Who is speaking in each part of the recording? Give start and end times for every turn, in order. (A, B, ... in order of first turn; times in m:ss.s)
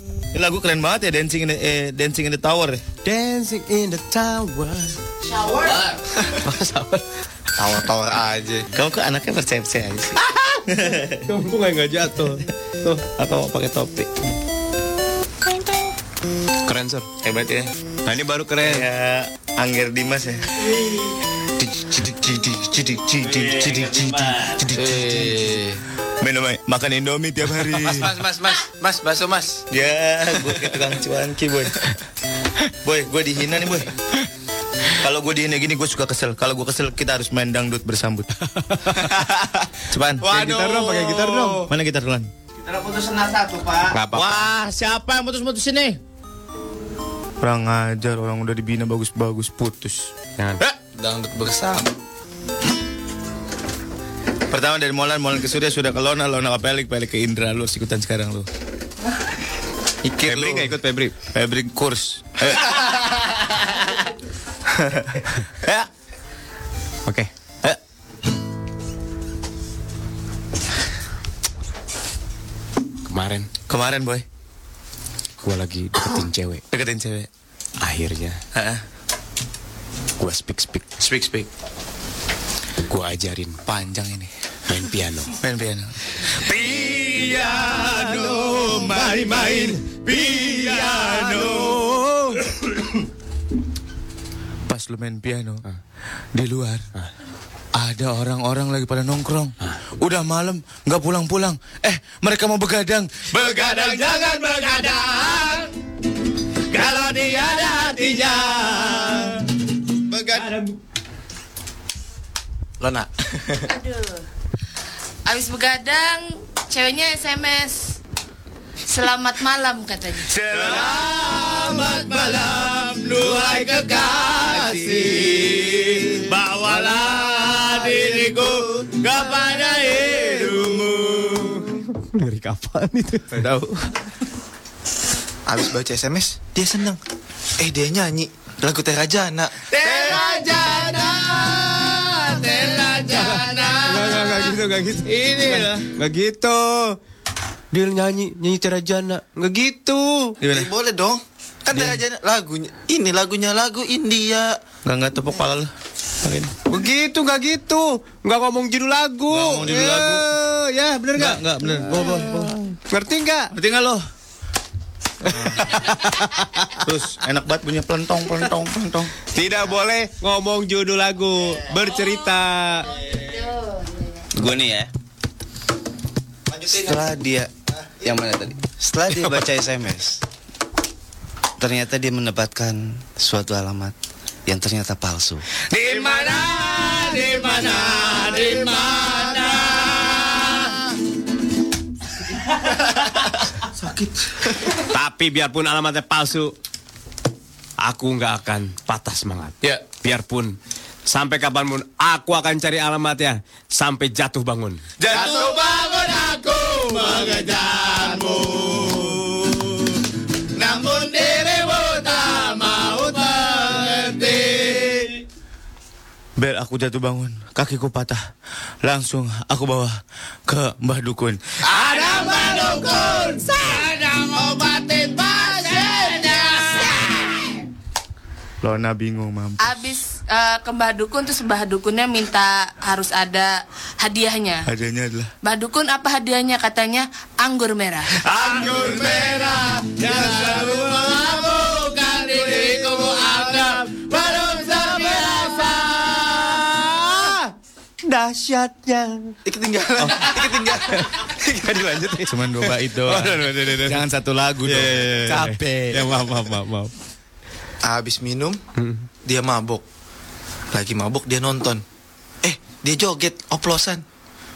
0:00.3-0:02.8 A
0:03.0-0:05.0 B
0:05.3-0:05.8 C
0:06.4-0:07.0 B
0:07.6-0:08.7 D
0:08.7-0:11.2 A
0:11.2-0:13.0 B
0:13.2-0:14.1 A
0:16.6-0:17.1 B
0:17.2-0:17.7 A
0:18.0-0:18.9 B
0:18.6-0:20.4 A
0:22.0-0:25.6 D
0:23.0-0:25.4 A
0:26.2-0:28.1 A
0:27.8-0:29.6 D
0:29.7-0:31.8 A
0:32.8-0:33.9 A
0:35.0-0:38.3 A
0:39.9-0:42.3 A
0:40.2-0:41.7 B
0:40.3-0:41.6 D
0:42.6-0:43.9 D
0:43.9-0:44.5 B
0:44.1-0:46.0 A
0:47.4-0:50.1 A
0:51.0-0:51.9 D
0:54.5-0:58.5 A
1:00.0-1:00.7 A
1:00.2-1:01.2 B
1:01.3-1:04.0 A
1:04.7-1:05.9 A
1:13.1-1:13.5 B
1:13.7-1:14.2 A
1:15.4-1:16.6 B
1:16.7-1:17.3 A
1:17.8-1:18.4 B
1:18.5-1:18.8 A
1:20.2-1:21.0 B
1:21.0-1:21.5 A
1:22.9-1:23.6 B
1:23.6-1:24.3 A
1:24.7-1:25.3 B
1:25.4-1:32.7 A
1:30.8-1:32.0 B
1:34.7-1:35.6 A
1:36.3-1:36.8 A
1:37.8-1:45.7 A
1:46.7-1:49.4 A
1:50.1-1:50.5 D
1:50.4-1:50.7 B
1:52.8-1:53.6 D
1:53.7-1:54.2 C
1:55.2-1:58.0 C
1:58.9-2:00.2 C
2:00.3-2:11.7 A
2:11.9-2:13.8 B
2:15.4-2:17.0 D
2:17.6-2:19.6 D
2:19.7-2:24.5 A
2:23.1-2:27.0 B
2:25.0-2:25.9 A
2:27.7-2:30.4 B
2:30.4-2:30.7 A
2:30.5-2:34.6 D
2:34.8-2:35.7 A
2:36.2-2:36.5 A
2:36.6-2:43.5 B
2:39.3-2:40.3 A
2:41.1-2:42.7 A
2:43.5-2:44.0 A
2:45.3-2:45.9 A
2:46.8-2:49.1 A
2:49.3-2:52.9 B
2:52.9-2:54.3 C
2:54.3-2:54.9 E
2:56.5-2:57.1 D
2:56.7-2:57.5 E
2:57.8-2:58.1 D
2:58.0-3:00.2 E
3:01.6-3:03.9 E
3:04.4-3:05.4 E
3:05.7-3:10.8 A
3:13.8-3:14.1 A
3:14.8-3:16.6 B
3:17.8-3:20.6 B
3:21.1-3:24.8 B
3:25.0-3:29.9 A
3:30.6-3:35.1 A
3:36.4-3:38.2 A
3:38.8-3:46.4 A
3:45.5-3:47.1 C
3:48.6-3:49.8 A
3:49.6-3:54.7 C
3:54.7-3:55.3 A
3:55.4-3:58.1 C
3:58.2-4:07.1 A
4:06.7-4:07.4 B
4:08.0-4:09.4 B
4:09.4-4:11.8 D
4:10.0-4:14.0 B
4:12.3-4:16.1 A
4:14.6-4:16.9 B
4:17.8-4:18.6 D
4:18.8-4:19.0 B
4:19.2-4:19.8 D
4:20.7-4:21.8 D
4:22.4-4:24.0 D